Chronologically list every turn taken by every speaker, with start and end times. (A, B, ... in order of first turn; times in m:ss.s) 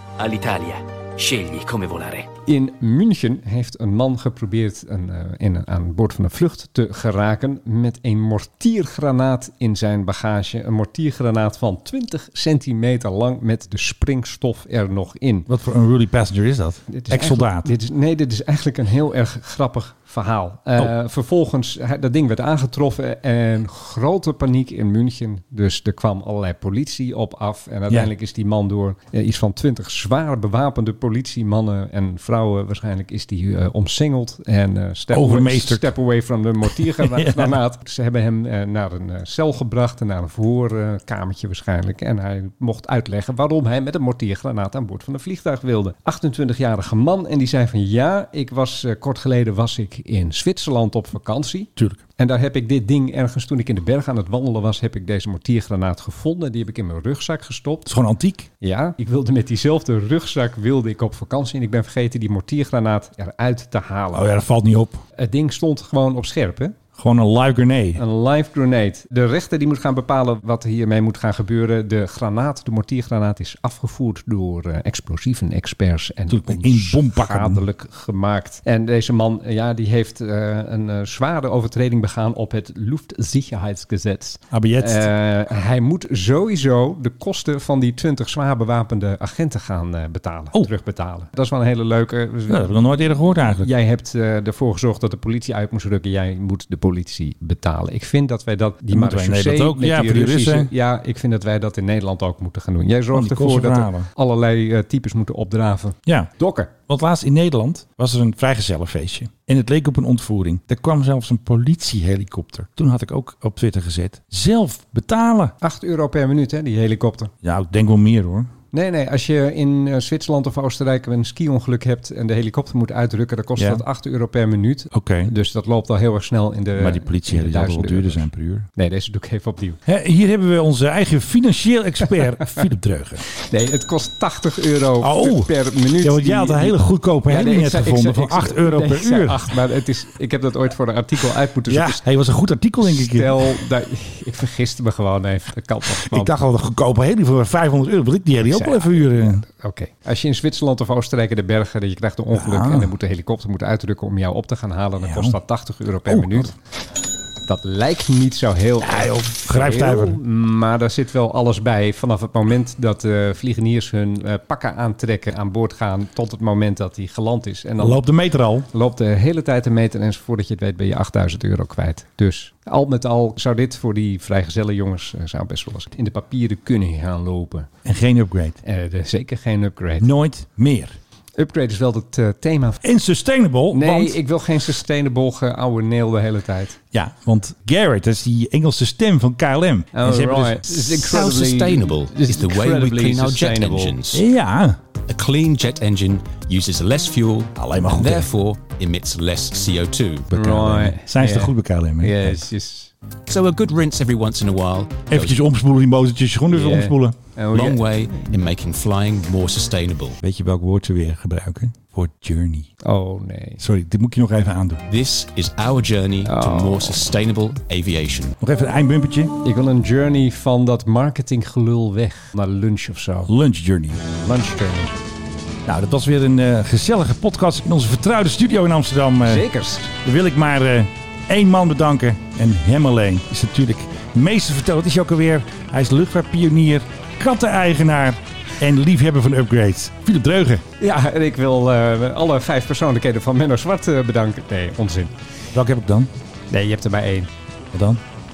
0:00.2-0:02.3 A
0:02.4-0:15.5 B
0:15.5-0:17.7 C
0:16.9-0:57.9 B
0:35.1-0:35.9 C
0:36.7-0:37.5 C
0:51.8-0:52.0 C
0:57.8-0:58.5 C
0:58.6-1:04.3 B
1:04.1-1:05.0 C
1:05.2-1:06.7 B
1:07.0-1:08.0 C
1:08.0-1:32.7 B
1:16.3-1:17.6 C
1:24.5-1:25.1 C
1:32.5-1:33.7 C
1:33.6-1:46.7 B
1:38.9-1:40.7 C
1:43.1-1:44.1 C
1:46.9-1:55.5 C
1:55.6-1:57.3 B
1:57.4-1:58.5 C
1:58.7-2:09.8 B
2:03.6-2:03.8 C
2:04.9-2:05.3 C
2:06.7-2:08.7 C
2:09.8-2:13.2 C
2:13.4-2:22.0 B
2:15.0-2:19.5 C
2:21.7-2:23.7 C
2:22.8-2:26.4 B
2:26.0-2:29.4 C
2:28.4-2:36.5 B
2:32.3-2:32.9 C
2:35.0-2:35.4 C
2:36.0-2:36.5 C
2:37.4-2:48.0 B
2:38.8-2:40.2 C
2:47.8-2:48.7 C
2:48.7-2:57.7 B
2:57.8-2:58.6 C
2:58.6-3:00.1 B
3:00.0-3:01.0 C
3:01.4-3:02.8 B
3:02.8-3:04.2 C
3:03.7-3:06.8 B
3:06.9-3:10.9 C
3:09.9-3:14.0 B
3:10.9-3:14.2 A
3:14.1-3:14.8 C
3:15.1-3:20.3 A
3:17.6-3:18.3 C
3:20.3-3:22.4 C
3:20.3-3:22.9 B
3:23.3-3:25.4 A
3:25.1-3:27.2 C
3:26.5-3:28.4 B
3:27.5-3:30.2 A
3:30.2-3:32.7 C
3:32.8-3:33.6 B
3:33.6-3:34.8 C
3:34.9-3:38.4 A
3:36.2-3:37.0 B
3:38.4-3:39.3 C
3:39.4-3:43.3 B
3:43.3-3:44.0 C
3:44.2-3:45.0 B
3:45.6-3:49.4 C
3:49.2-3:49.9 B
3:50.0-4:00.6 C
4:00.8-4:05.1 B
4:05.5-4:06.1 C
4:06.5-4:07.3 B
4:07.7-4:08.0 C